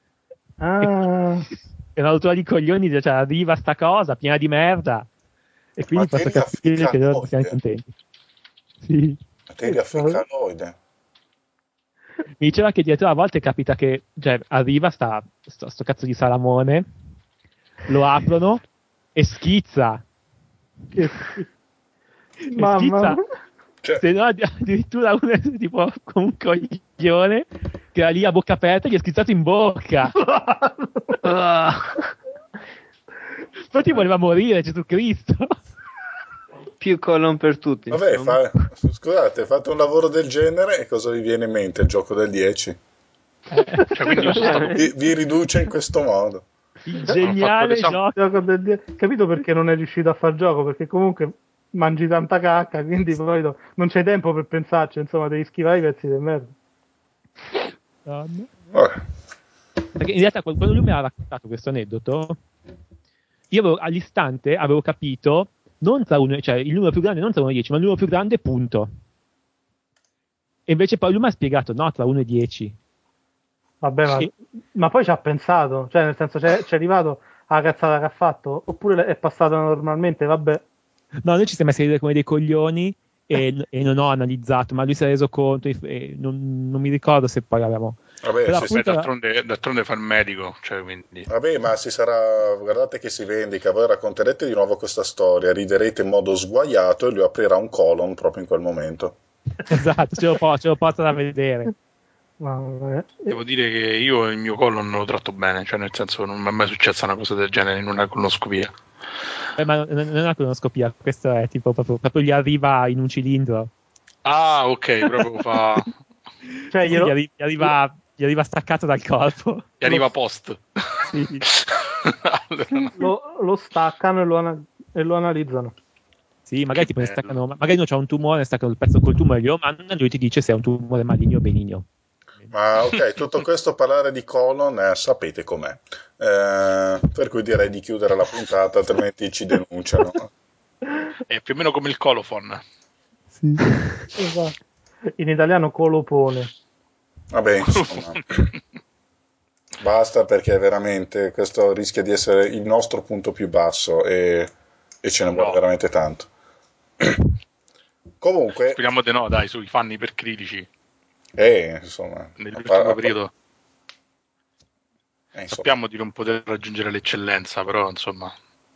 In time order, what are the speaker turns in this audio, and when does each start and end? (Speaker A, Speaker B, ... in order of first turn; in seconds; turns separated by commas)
Speaker A: 0.6-1.5, Speaker B: 1.9-5.1, Speaker B: 5.8-7.9, Speaker C: 5.9-7.5, Speaker B: 8.8-9.2, Speaker C: 9.5-10.7, Speaker A: 9.6-10.2, Speaker B: 12.4-16.9, Speaker B: 17.9-18.6, Speaker B: 19.1-20.0, Speaker A: 20.9-21.4, Speaker B: 21.0-21.4, Speaker B: 22.5-23.2, Speaker A: 22.5-23.2, Speaker B: 24.0-30.2, Speaker A: 30.2-31.2, Speaker D: 31.2-32.0, Speaker B: 33.7-35.5, Speaker D: 36.8-38.5, Speaker C: 37.9-42.8, Speaker A: 43.6-44.8, Speaker E: 43.8-44.8, Speaker C: 44.7-46.5, Speaker B: 46.9-48.2, Speaker E: 47.1-48.0, Speaker A: 48.0-56.5, Speaker B: 58.0-58.5, Speaker C: 58.7-59.0, Speaker B: 60.0-62.4, Speaker B: 63.5-68.9, Speaker B: 70.7-72.7, Speaker A: 73.8-80.6, Speaker B: 81.2-89.1, Speaker C: 88.2-88.8, Speaker E: 88.6-91.3, Speaker C: 91.3-99.2, Speaker B: 99.6-101.7, Speaker A: 102.4-103.3, Speaker E: 103.3-108.7, Speaker B: 109.6-113.7, Speaker E: 114.2-115.9, Speaker A: 116.7-117.1, Speaker B: 116.8-120.0, Speaker E: 119.8-123.1, Speaker B: 121.1-121.5, Speaker A: 123.0-125.7, Speaker B: 126.5-131.8, Speaker E: 127.0-127.3, Speaker C: 132.5-140.3, Speaker E: 141.3-142.6, Speaker B: 143.3-144.1, Speaker A: 144.1-144.6, Speaker A: 145.2-146.5, Speaker C: 147.3-148.5, Speaker E: 147.7-148.4, Speaker C: 149.8-156.3, Speaker E: 155.3-155.6, Speaker C: 157.0-157.3, Speaker C: 158.2-158.8, Speaker E: 158.7-160.7, Speaker C: 161.4-163.2, Speaker E: 162.4-163.3, Speaker C: 165.3-165.7, Speaker E: 165.5-168.3